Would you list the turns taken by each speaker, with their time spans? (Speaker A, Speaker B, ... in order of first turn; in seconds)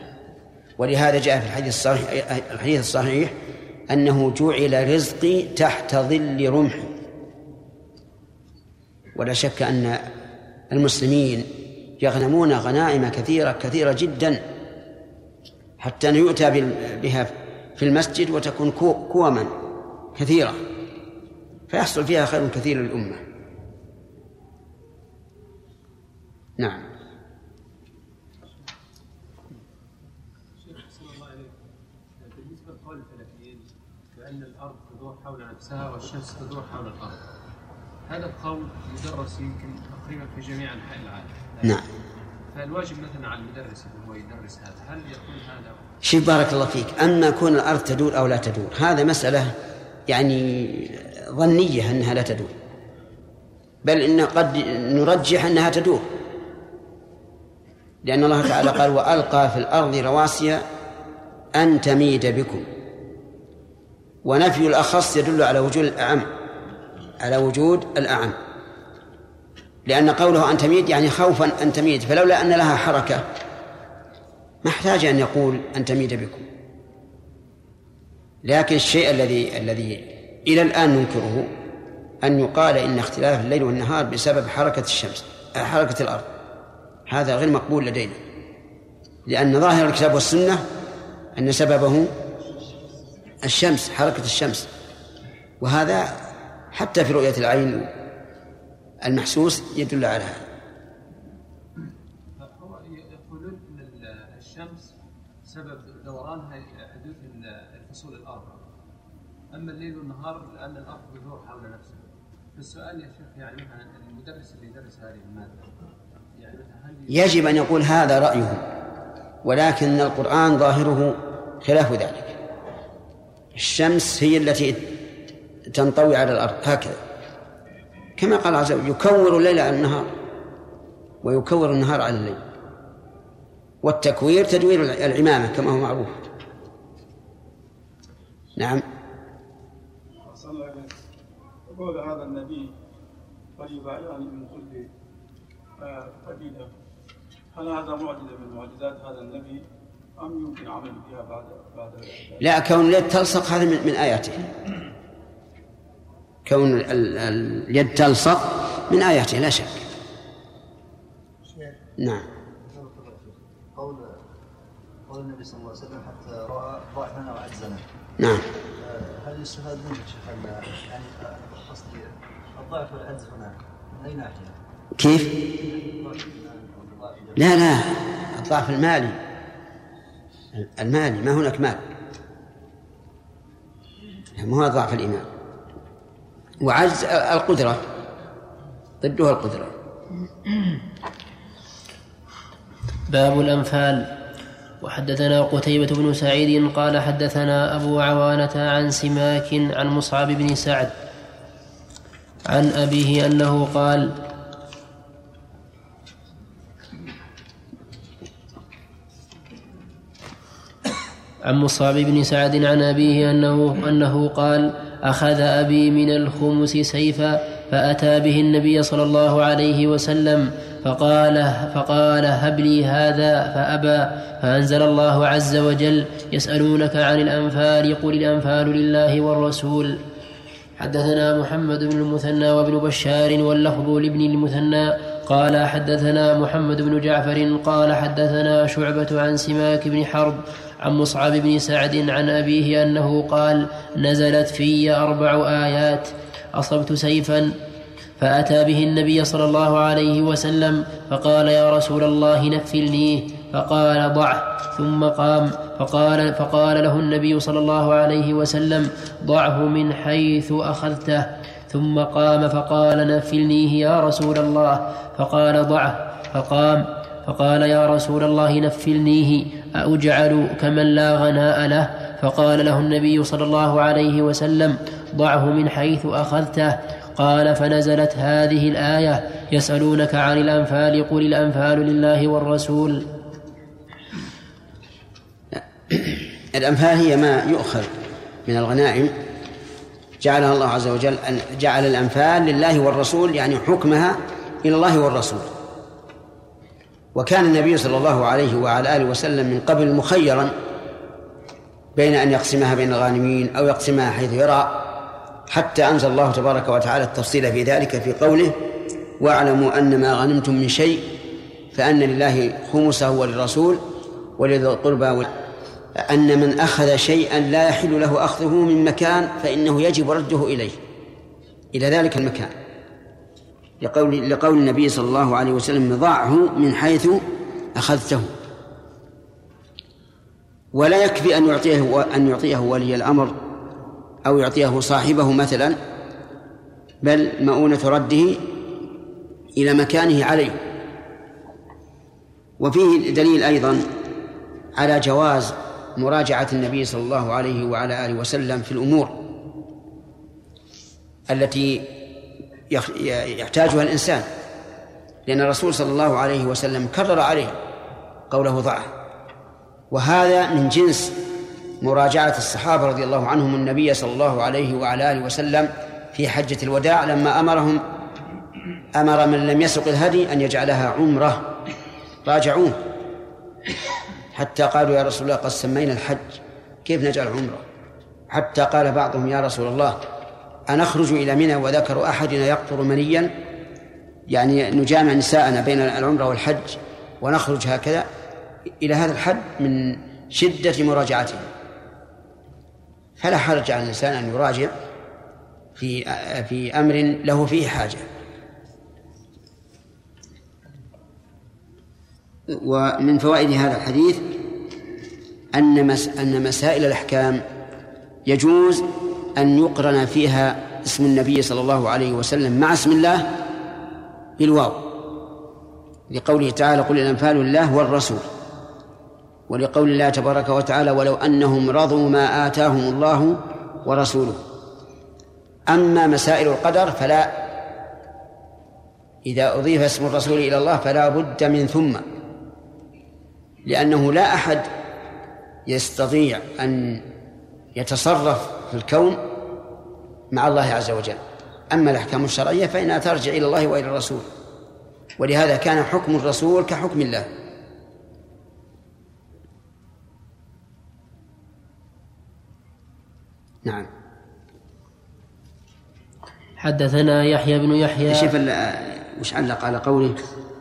Speaker A: 0.8-3.4, 3.9-6.9, 9.2-10.0, 10.7-14.4, 15.8-19.6, 20.1-20.6, 21.7-23.2, 26.6-26.9, 46.0-49.5, 50.1-52.5, 53.8-56.1, 58.0-60.6, 61.5-62.7, 64.2-66.3, 67.2-68.4, 69.8-73.2, 74.6-76.5, 78.4-81.5, 82.2-86.3, 87.1-88.2, 89.2-90.6, 91.3-92.1, 93.4-94.7, 95.6-97.9, 99.0-100.4, 117.1-118.6, 119.4-122.3, 123.5-124.9, 125.7-127.0, 128.2-130.1, 131.2-132.4, 133.8-136.2, 138.6-138.8, 152.4-154.5, 156.4-159.8, 162.0-162.2, 168.2-168.4, 174.9-175.4, 177.3-179.2, 180.5-181.9, 184.3-185.3, 186.6-187.8, 189.0-189.7, 285.5-287.9, 288.4-289.1, 290.2-295.5, 297.1-300.5, 301.9-304.9, 305.5-308.6, 309.2-311.1, 311.7-313.8, 314.4-315.3, 315.9-320.8, 321.7-322.5, 323.8-328.3, 330.7-333.4, 334.2-335.8, 337.0-338.6, 339.5-340.6, 342.6-343.9, 344.8-349.2, 351.3-352.0, 352.7-354.3, 355.3-357.6, 358.3-358.9, 359.9-361.2, 361.8-367.8, 368.9-371.5, 372.2-372.8, 374.3-377.6, 378.3-380.0, 380.7-383.3, 384.3-388.1, 388.8-391.5, 393.2-394.7, 395.8-398.1, 402.5-404.4, 405.5-407.4, 408.2-413.3, 414.4-415.0, 416.1-418.2, 419.5-424.4, 425.7-427.4, 429.2-432.1, 433.6-434.7, 435.7-437.0, 437.7-439.3, 440.3-444.3, 445.2-447.3, 458.1-460.2
Speaker B: 30.6-31.5, 32.2-37.2, 38.0-41.8, 42.5-45.8, 102.4-104.9, 105.5-108.5, 109.5-112.0, 112.5-115.8, 116.3-117.4
Speaker C: 140.2-140.9, 141.7-142.7, 143.6-144.9, 145.8-146.7, 147.5-149.6, 150.2-152.5
Speaker D: 162.6-164.1, 165.1-167.8, 168.8-174.6, 175.4-177.4
Speaker E: 193.1-194.1, 194.8-200.9, 202.5-204.1, 211.4-230.0, 230.8-247.6, 248.2-283.1, 456.6-458.3